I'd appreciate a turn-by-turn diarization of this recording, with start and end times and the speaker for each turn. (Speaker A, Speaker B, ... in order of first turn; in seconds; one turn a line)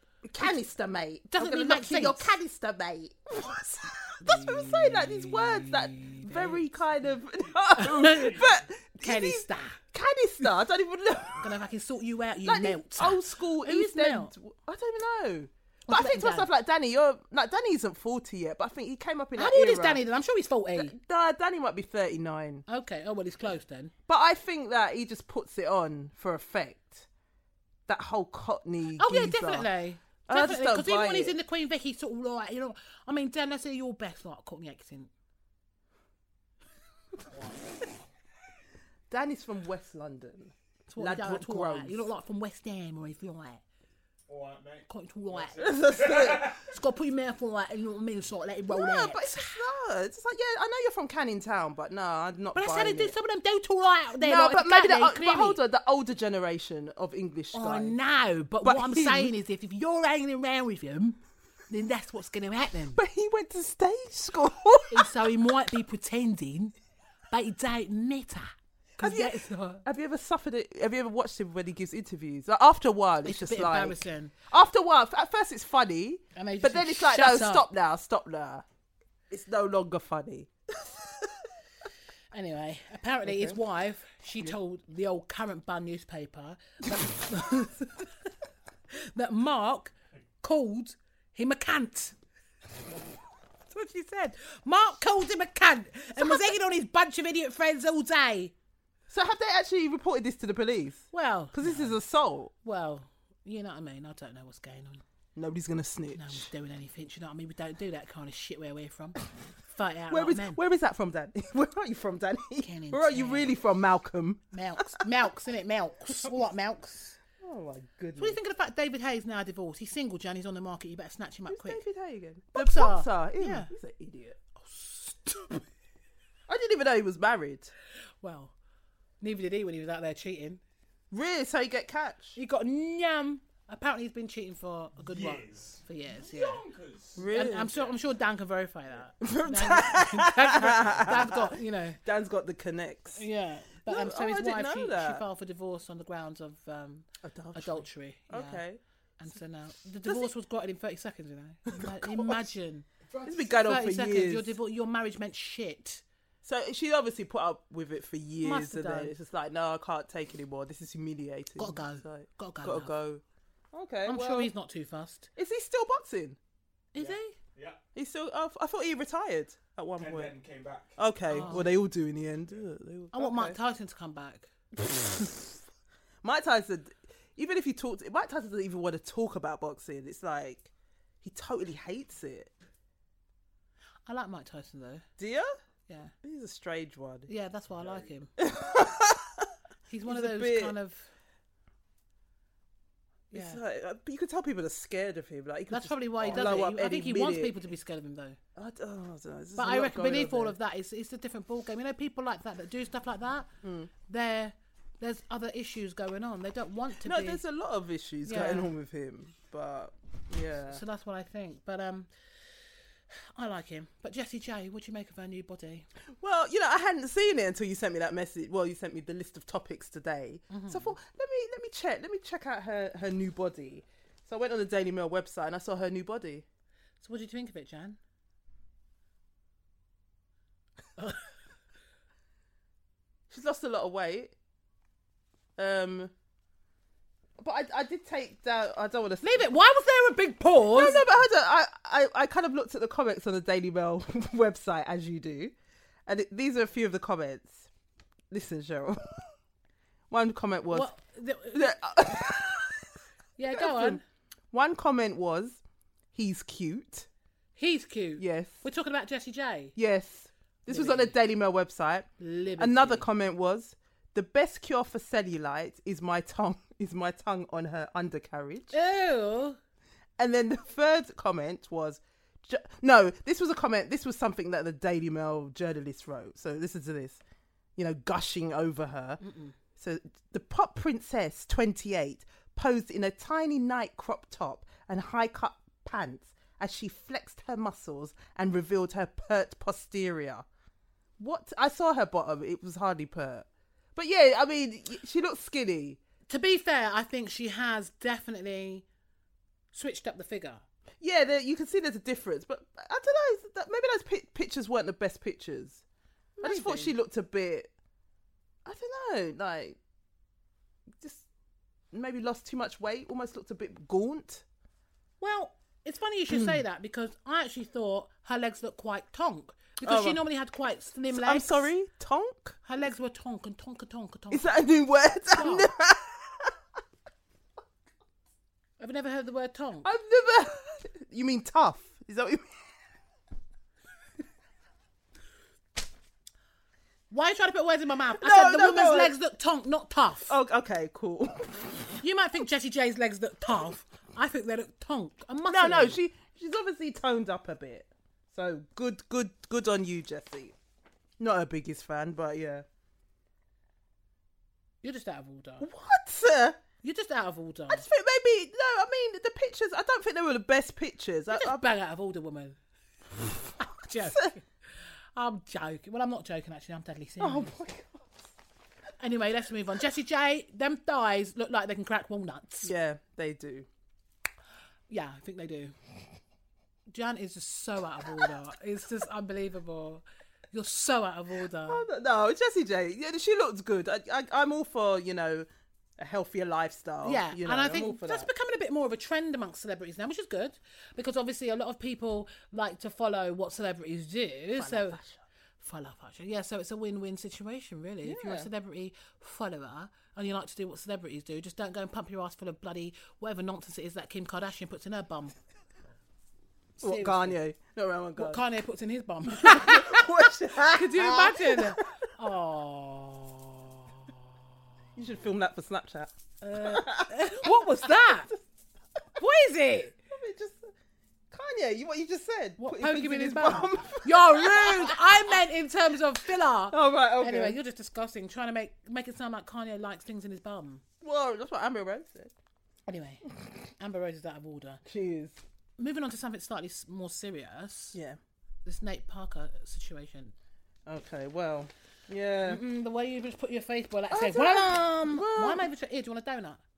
Speaker A: 0.2-11.5
Speaker B: 1.3-2.4
Speaker B: 4.2-6.6
Speaker B: 7.7-8.4
Speaker C: 8.0-8.5
Speaker B: 9.0-9.8
Speaker B: 11.4-14.3
Speaker A: 12.4-20.0
Speaker B: 15.9-16.5
Speaker B: 19.4-20.9
Speaker A: 20.7-22.6
Speaker B: 22.7-23.9
Speaker A: 24.1-27.1
Speaker A: 27.9-29.7
Speaker B: 29.0-35.1
Speaker A: 30.3-31.3
Speaker C: 37.3-37.6
Speaker A: 39.1-42.1
Speaker B: 40.9-43.6
Speaker C: 44.3-46.7
Speaker B: 44.9-45.7
Speaker A: 45.6-46.5
Speaker B: 46.4-49.6
Speaker A: 48.7-53.1
Speaker B: 52.5-55.6
Speaker A: 54.2-57.9
Speaker B: 57.5-61.2
Speaker A: 58.6-59.3
Speaker B: 61.7-63.0
Speaker A: 62.9-65.1
Speaker B: 64.9-66.7
Speaker B: 67.3-69.8
Speaker A: 69.0-78.6
Speaker B: 73.2-74.3
Speaker B: 76.3-77.6
Speaker A: 79.3-81.5
Speaker B: 82.3-88.3
Speaker A: 83.2-83.6
Speaker B: 88.9-92.2
Speaker B: 93.7-98.5
Speaker A: 96.2-96.5
Speaker A: 99.1-102.5
Speaker B: 101.1-102.0
Speaker B: 102.6-105.0
Speaker A: 105.3-106.5
Speaker B: 106.1-110.6
Speaker A: 110.1-115.0
Speaker B: 112.6-113.5
Speaker B: 114.5-117.2
Speaker A: 117.4-118.4
Speaker B: 118.2-121.8
Speaker A: 121.5-124.4
Speaker B: 122.5-123.7
Speaker B: 124.5-125.6
Speaker A: 126.5-127.7
Speaker B: 128.2-128.5
Speaker B: 129.2-130.6
Speaker A: 131.1-132.4
Speaker B: 132.3-136.6
Speaker C: 135.0-138.0
Speaker A: 137.2-137.7
Speaker B: 137.3-142.0
Speaker A: 139.2-143.2
Speaker B: 143.1-148.6
Speaker A: 143.8-145.2
Speaker A: 147.2-148.8
Speaker B: 149.2-152.9
Speaker A: 151.7-152.5
Speaker C: 153.1-153.5
Speaker A: 153.2-154.5
Speaker B: 153.5-156.0
Speaker A: 156.4-164.5
Speaker B: 158.4-159.1
Speaker B: 161.6-162.9
Speaker B: 164.1-165.3
Speaker A: 165.3-166.4
Speaker B: 166.9-167.3
Speaker C: 166.9-167.8
Speaker A: 167.9-170.3
Speaker C: 170.0-171.6
Speaker A: 171.0-173.6
Speaker B: 171.3-171.7
Speaker B: 173.1-174.5
Speaker A: 174.8-175.4
Speaker A: 176.2-180.7
Speaker A: 181.2-182.5
Speaker B: 184.1-185.0
Speaker A: 185.2-185.5
Speaker B: 185.9-186.1
Speaker A: 186.2-187.3
Speaker B: 187.3-188.3
Speaker C: 187.8-188.0
Speaker A: 188.4-189.5
Speaker B: 189.9-191.1
Speaker A: 190.1-190.7
Speaker B: 193.3-193.6
Speaker A: 193.3-197.6
Speaker B: 195.7-198.4
Speaker A: 198.5-200.5
Speaker B: 199.6-203.5
Speaker A: 203.6-203.9
Speaker B: 204.0-207.4
Speaker A: 207.0-210.8
Speaker B: 208.2-208.7
Speaker B: 210.7-212.1
Speaker B: 213.1-215.9
Speaker A: 216.2-226.4
Speaker B: 220.5-220.9
Speaker B: 227.0-228.0
Speaker B: 231.0-231.2
Speaker A: 233.3-234.3
Speaker A: 235.6-236.1
Speaker A: 237.4-239.4
Speaker B: 239.2-241.1
Speaker A: 240.7-245.5
Speaker A: 246.1-247.7
Speaker A: 248.3-249.2
Speaker A: 250.1-250.9
Speaker B: 250.7-251.8
Speaker A: 251.5-252.9
Speaker B: 253.4-254.0
Speaker A: 253.5-255.6
Speaker A: 256.1-257.1
Speaker B: 257.6-259.7
Speaker A: 258.2-258.6
Speaker A: 259.8-268.7
Speaker B: 260.7-261.1
Speaker B: 262.2-263.1
Speaker B: 268.7-269.6
Speaker A: 270.2-277.2
Speaker A: 277.8-279.2
Speaker B: 279.2-279.6
Speaker A: 279.8-290.4
Speaker A: 291.2-296.0
Speaker B: 296.3-298.8
Speaker B: 299.7-300.6
Speaker A: 301.0-305.8
Speaker A: 306.4-307.7
Speaker B: 306.4-306.9
Speaker A: 308.6-309.8
Speaker A: 311.0-311.3
Speaker A: 311.9-314.4
Speaker B: 315.2-321.7
Speaker A: 316.3-316.6
Speaker A: 319.8-320.2
Speaker A: 321.1-322.6
Speaker B: 322.6-324.5
Speaker A: 324.3-326.5
Speaker B: 325.3-325.7
Speaker B: 328.8-329.9
Speaker A: 329.8-332.5
Speaker B: 337.1-340.3
Speaker A: 338.1-339.1
Speaker A: 340.3-342.0
Speaker B: 342.0-346.0
Speaker A: 345.5-350.5
Speaker A: 351.2-352.6
Speaker B: 354.8-355.7
Speaker A: 355.6-356.6
Speaker B: 356.8-357.9
Speaker A: 357.7-361.6
Speaker B: 361.3-362.6
Speaker B: 363.2-364.4
Speaker A: 364.0-364.3
Speaker B: 365.1-367.6
Speaker A: 367.2-368.2
Speaker B: 369.0-372.7
Speaker A: 372.6-373.7
Speaker B: 374.9-375.7
Speaker B: 376.9-381.8
Speaker A: 381.6-388.3
Speaker B: 387.0-395.0
Speaker A: 394.5-395.2
Speaker B: 395.6-405.3
Speaker A: 398.0-398.5
Speaker B: 406.8-407.4
Speaker A: 406.8-408.4
Speaker B: 408.2-414.3
Speaker A: 409.3-411.9
Speaker A: 414.9-418.4
Speaker B: 416.4-418.3
Speaker B: 419.2-419.9
Speaker A: 420.1-420.7
Speaker A: 421.3-425.2
Speaker B: 422.6-430.8
Speaker A: 426.7-427.6
Speaker A: 431.0-432.3
Speaker B: 432.9-433.2
Speaker B: 433.8-434.8
Speaker A: 434.8-435.4
Speaker B: 435.8-438.0
Speaker B: 438.6-440.3
Speaker A: 440.9-442.6
Speaker B: 442.4-446.6
Speaker A: 444.1-445.7